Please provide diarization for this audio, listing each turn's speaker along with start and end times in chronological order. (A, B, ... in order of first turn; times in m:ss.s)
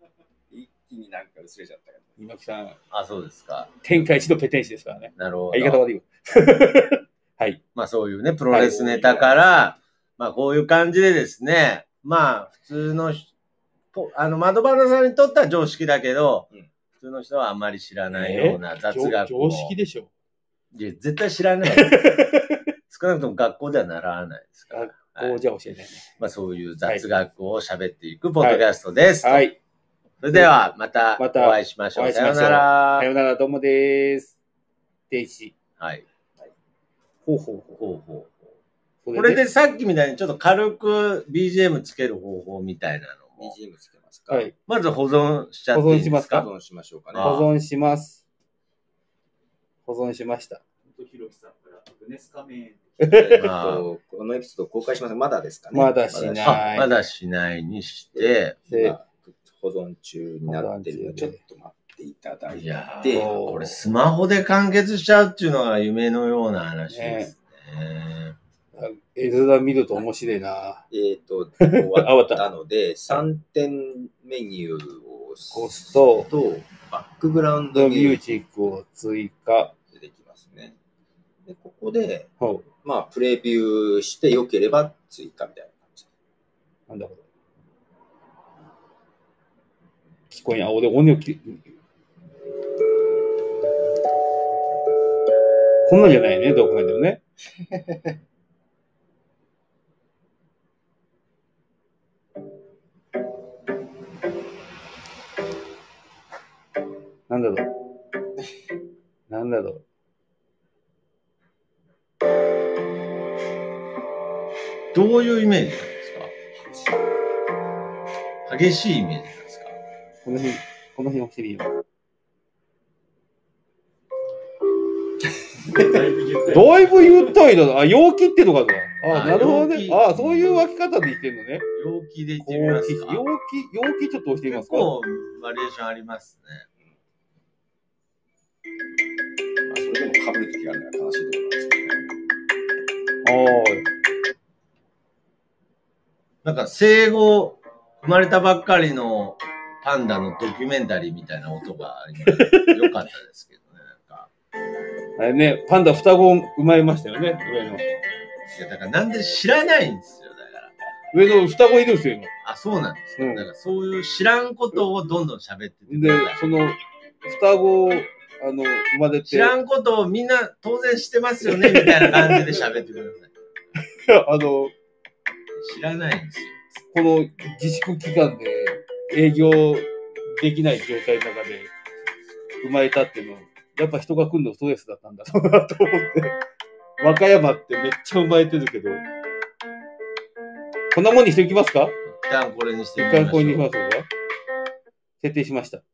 0:00.5-0:02.2 A
0:02.2-0:02.8 B
0:02.9-0:03.7 C
0:03.8-0:07.6 B
0:05.2-0:05.8 C
0:07.7-0:13.3 C
0:08.5-0:08.8 B
0:08.7-0:09.4 A
0:13.9-0:19.8 C
0:18.1-0:20.1 B
0:20.7-0:22.0 C
0:21.7-0:22.6 B
0:22.9-0:25.4 C
0:24.7-0:26.1 B
0:26.2-0:29.5 C
0:29.2-0:29.6 B
0:30.2-0:33.1 C
0:31.2-0:34.4 B
0:35.1-0:35.5 B
0:35.8-0:36.0 C
0:37.2-0:37.8 B
0:37.8-0:38.5 C
0:39.0-0:39.4 B
0:39.1-0:43.5 C
0:43.4-0:44.5 A
0:44.7-0:46.5 C
0:45.7-0:46.4 B
0:46.2-0:47.4 A
0:47.1-0:47.5 C
0:47.2-0:48.2 B
0:49.8-0:50.6 B
0:50.8-0:53.2 D
0:53.0-0:56.8 A
0:53.0-0:53.4 B
0:53.4-0:53.8 C
0:55.7-0:56.9 B
0:56.4-0:58.6 C
0:58.1-1:03.3 A
0:58.7-0:59.0 B
1:00.5-1:01.4 B
1:02.5-1:08.3 C
1:03.1-1:03.8 B
1:06.9-1:07.3 B
1:08.7-1:10.8 B
1:10.9-1:18.2 A
1:11.6-1:12.5 B
1:15.5-1:16.3 B
1:17.7-1:19.7 B
1:19.9-1:20.8 A
1:21.4-1:22.3 A
1:22.4-1:22.6 B
1:22.8-1:26.1 A
1:26.9-1:27.2 B
1:30.3-1:31.7 B
1:35.8-1:37.2 B
1:47.3-1:47.7 B
1:49.3-1:49.8 B
1:54.9-1:56.3 C
1:58.4-1:59.7 C
2:00.2-2:01.8 B
2:05.6-2:07.2 D
2:06.5-2:11.6 B
2:09.1-2:10.6 C
2:11.7-2:13.2 C
2:12.4-2:14.9 B
2:14.5-2:16.6 C
2:19.6-2:22.1 A
2:23.2-2:23.9 B
2:26.4-2:34.3 C
2:32.3-2:32.8 B
2:35.2-2:37.9 B
2:38.5-2:40.7 C
2:41.1-2:42.3 B
2:42.4-2:46.4 C
2:43.2-2:43.5 B
2:45.9-2:49.5 B
2:49.2-2:53.3 C
2:51.4-2:52.7 B
2:53.8-2:54.7 B
2:55.6-2:56.6 C
2:56.9-3:01.7 B
3:02.6-3:06.4 B
3:07.0-3:09.0 B
3:10.9-3:12.0 B
3:12.1-3:13.7 C
3:13.0-3:14.1 B
3:15.2-3:15.8 B